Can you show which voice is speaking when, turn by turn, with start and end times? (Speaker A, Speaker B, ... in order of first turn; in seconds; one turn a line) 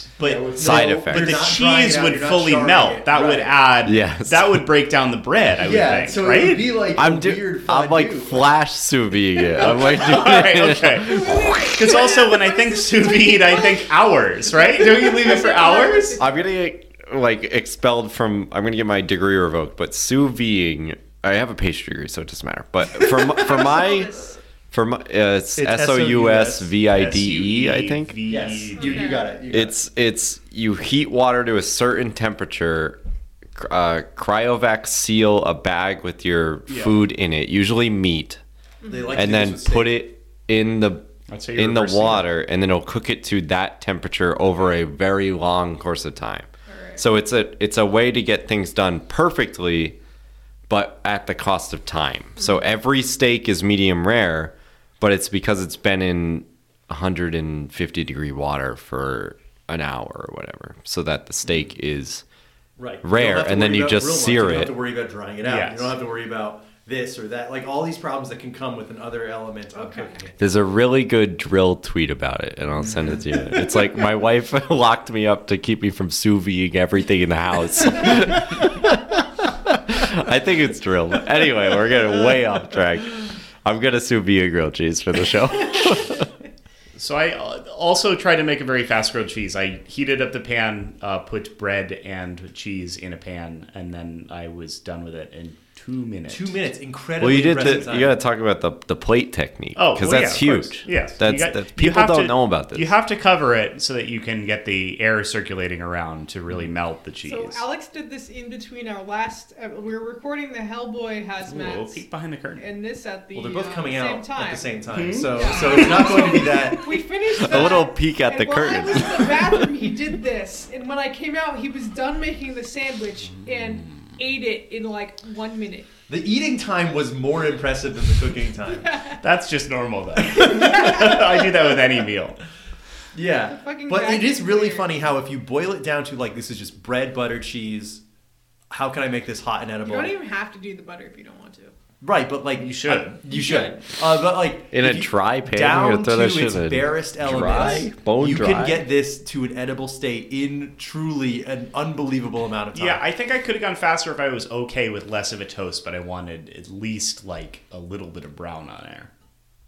Speaker A: 0.2-6.8
Speaker B: 0.2-3.5
Speaker C: 0.6-1.5
Speaker C: 3.8-4.6
Speaker B: 5.6-8.5
Speaker C: 6.9-12.0
Speaker A: 9.5-16.2
Speaker D: 11.0-13.9
Speaker D: 14.5-16.4
Speaker C: 16.2-28.2
Speaker D: 23.2-24.4
Speaker B: 25.6-26.7
Speaker A: 26.9-29.2
Speaker B: 28.3-29.8
Speaker D: 28.8-29.4
Speaker C: 29.5-33.0
Speaker C: 33.5-38.4
Speaker A: 36.7-37.0
Speaker D: 38.8-39.2
Speaker B: 38.9-40.0
Speaker C: 39.1-50.0
Speaker A: 41.3-42.3
Speaker D: 46.7-47.0
Speaker C: 50.7-62.2
Speaker B: 62.8-70.4
Speaker C: 63.0-64.7
Speaker A: 65.4-65.9
Speaker D: 69.7-70.2
Speaker C: 70.4-86.3
Speaker A: 87.0-96.6
Speaker B: 96.3-98.2
Speaker C: 97.2-102.9
Speaker A: 99.8-107.6
Speaker D: 107.2-112.0
Speaker A: 111.5-112.6
Speaker D: 112.6-114.7
Speaker B: 113.3-117.8
Speaker A: 114.9-116.5
Speaker D: 115.3-125.9
Speaker C: 117.3-119.7
Speaker A: 123.4-123.9
Speaker B: 126.1-129.1
Speaker D: 128.7-129.2
Speaker A: 129.2-132.4
Speaker B: 130.2-131.5
Speaker D: 130.5-131.3
Speaker B: 133.1-138.0
Speaker D: 133.5-134.9
Speaker B: 138.7-140.1
Speaker D: 139.8-141.7
Speaker B: 142.0-153.0
Speaker A: 142.6-143.2
Speaker D: 143.3-143.8
Speaker C: 144.7-148.9
Speaker A: 152.7-159.1